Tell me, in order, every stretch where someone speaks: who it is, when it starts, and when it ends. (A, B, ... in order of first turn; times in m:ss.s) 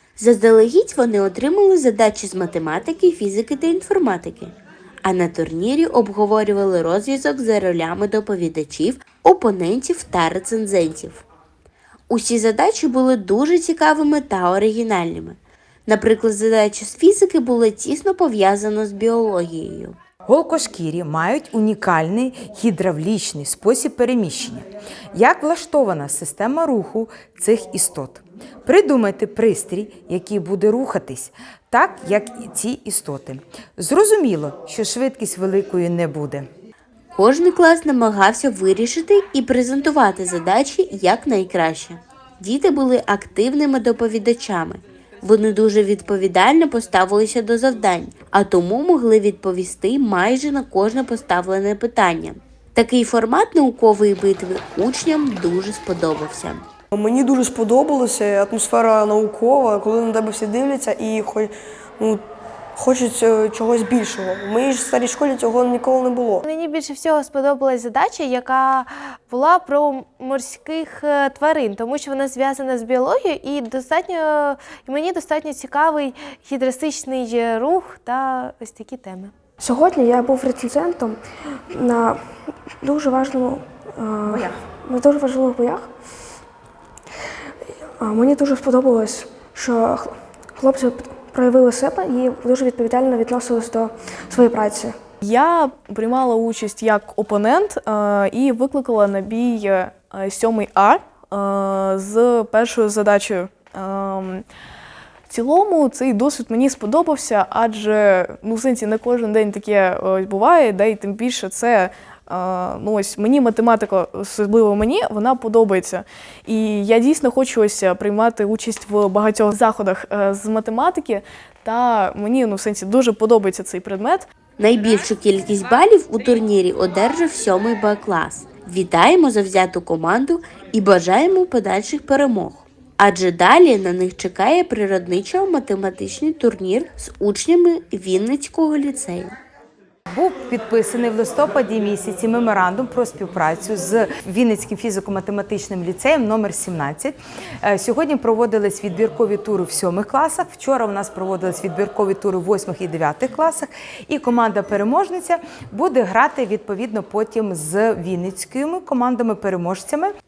0:00.2-0:04.5 A
0:05.0-0:11.2 A
0:12.1-0:20.0 A
0:20.3-0:36.5 B
0:37.1-0:56.6 A
0:56.9-1:02.2 C
1:02.8-1:06.4 C
1:06.4-1:19.3 D
1:19.6-1:21.2 E
1:21.7-1:22.2 E
1:22.8-1:25.9 E
1:28.0-1:35.0 E
1:35.2-1:44.4 F
1:45.3-2:04.3 F
2:04.6-2:19.3 A
2:20.1-2:40.1 B